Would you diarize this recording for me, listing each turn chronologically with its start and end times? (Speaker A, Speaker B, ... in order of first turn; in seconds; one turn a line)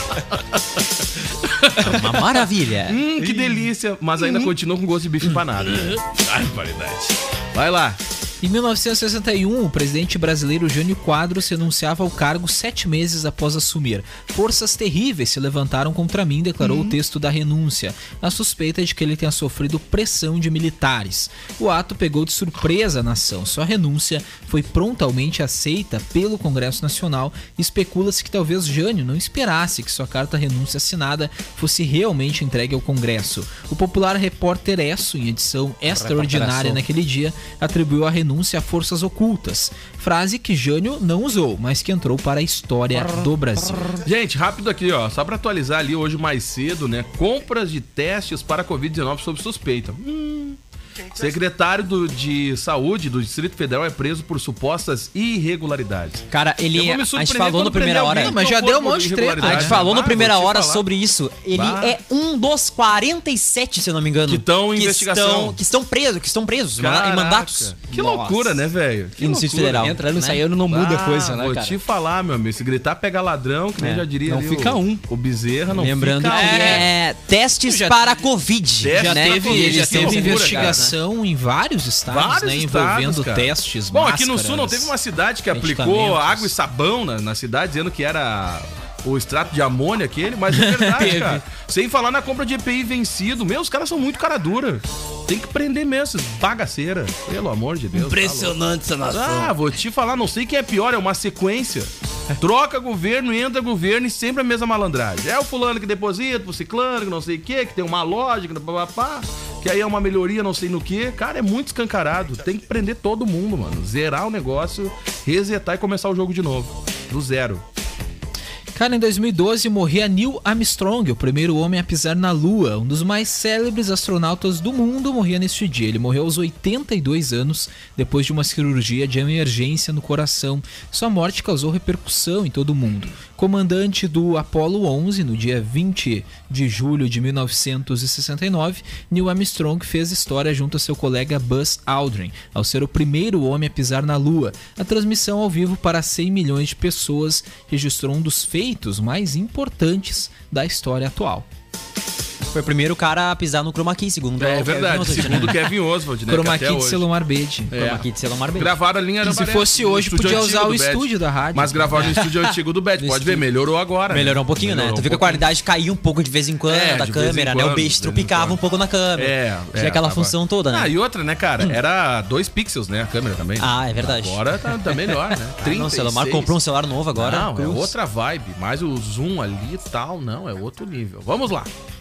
Speaker A: 1.4-2.2
Speaker B: 1.8-3.0
Speaker A: 2.9-8.0
Speaker C: 3.2-3.6
Speaker D: 8.4-44.0
Speaker C: 36.0-36.8
Speaker A: 44.0-50.6
Speaker A: 51.1-60.8
Speaker B: 56.3-58.4
Speaker D: 58.1-59.8
Speaker B: 59.4-67.8
Speaker A: 61.5-62.0
Speaker A: 64.3-65.6
Speaker A: 66.8-69.9
Speaker C: 67.9-68.6
Speaker B: 69.2-70.4
Speaker C: 69.8-71.8
Speaker A: 70.7-76.9
Speaker B: 73.8-74.0
Speaker C: 74.2-75.0
Speaker B: 75.7-80.9
Speaker C: 76.3-76.9
Speaker C: 77.7-78.1
Speaker A: 78.8-80.9
Speaker D: 78.9-84.9
Speaker A: 82.1-98.5
Speaker B: 85.6-86.1
Speaker D: 85.6-86.3
Speaker C: 91.0-91.3
Speaker C: 97.9-99.5
Speaker A: 99.1-117.6
Speaker D: 118.7-151.5
Speaker B: 152.5-155.6
Speaker A: 154.4-157.0
Speaker D: 156.2-157.7
Speaker A: 157.7-158.0
Speaker B: 157.7-158.8
Speaker A: 158.6-165.4
Speaker D: 159.2-162.2
Speaker B: 163.0-163.4
Speaker B: 164.1-170.9
Speaker A: 166.7-168.6
Speaker A: 169.2-176.6
Speaker B: 173.6-177.9
Speaker A: 177.1-181.7